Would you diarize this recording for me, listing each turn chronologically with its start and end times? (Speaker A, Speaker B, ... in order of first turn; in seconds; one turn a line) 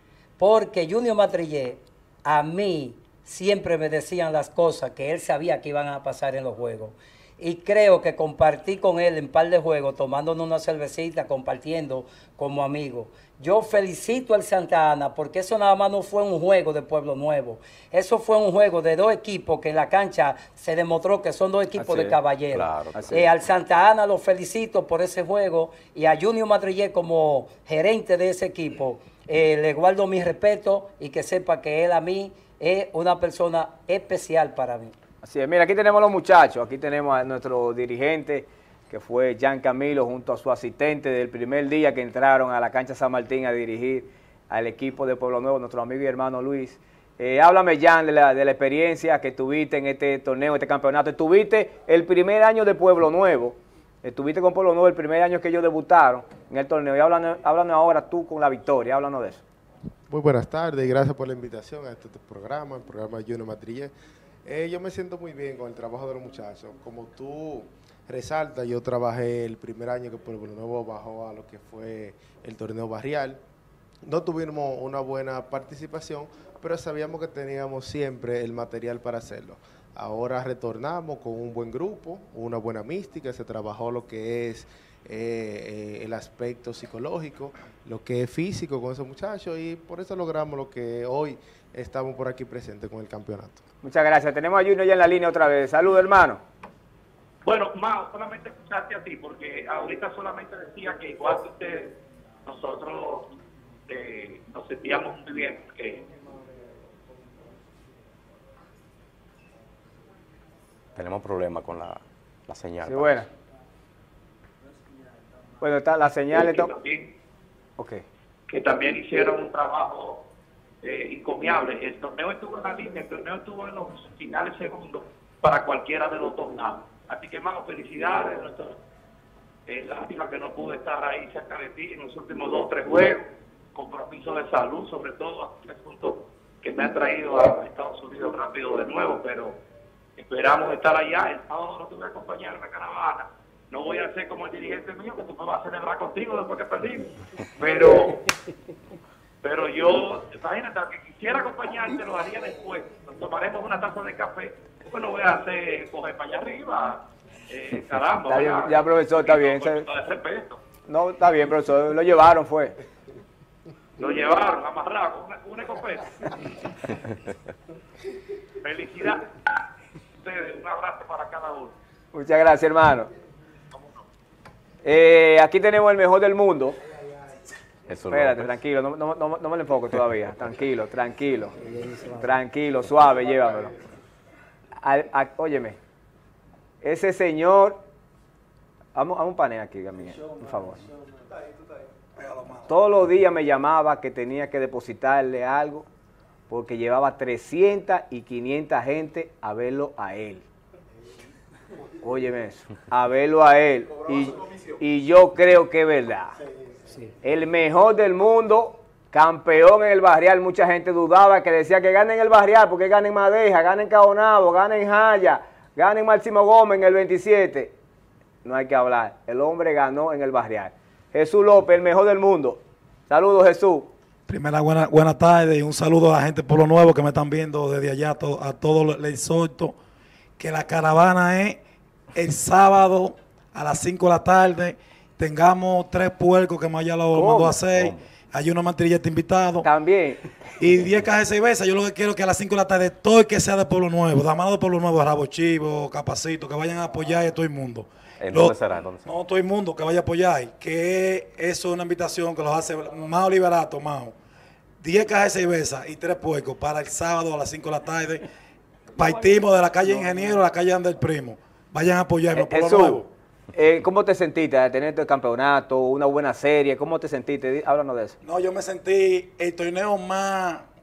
Speaker A: 0.4-35.0
Speaker B: 21.8-22.2
Speaker C: 22.5-23.0
Speaker B: 22.9-23.3
Speaker B: 35.2-59.4
Speaker D: 60.1-63.9
Speaker D: 64.5-73.4
Speaker D: 74.0-93.6
Speaker B: 93.8-96.4
Speaker E: 97.5-103.3
Speaker E: 103.9-106.0
Speaker C: 111.0-113.2
Speaker B: 112.8-113.3
Speaker B: 115.6-116.7
Speaker E: 116.3-117.1
Speaker B: 117.8-118.0
Speaker E: 118.5-120.2
Speaker E: 120.8-128.8
Speaker E: 129.7-139.6
Speaker E: 140.2-148.3
Speaker E: 149.4-160.6
Speaker B: 158.3-159.9
Speaker B: 160.9-162.8
Speaker E: 164.0-166.2
Speaker E: 168.6-169.2
Speaker E: 170.2-171.8
Speaker B: 172.1-173.1
Speaker B: 174.8-176.8
Speaker C: 177.9-178.5
Speaker B: 178.1-181.6
Speaker A: 181.7-182.2
Speaker B: 182.2-183.8
Speaker B: 184.8-185.8
Speaker B: 186.8-187.8
Speaker B: 188.9-190.8
Speaker F: 192.2-192.8
Speaker B: 192.7-195.9
Speaker B: 196.5-200.5
Speaker B: 202.0-206.4
Speaker B: 207.2-217.7
Speaker B: 218.4-223.9
Speaker F: 224.3-229.8
Speaker F: 230.4-231.6
Speaker F: 232.2-239.7
Speaker B: 237.1-237.6
Speaker C: 237.7-238.0
Speaker B: 239.6-240.3
Speaker F: 240.6-254.2
Speaker C: 248.2-249.1
Speaker F: 254.8-258.2
Speaker F: 259.0-263.1
Speaker B: 262.3-268.2
Speaker F: 268.2-270.6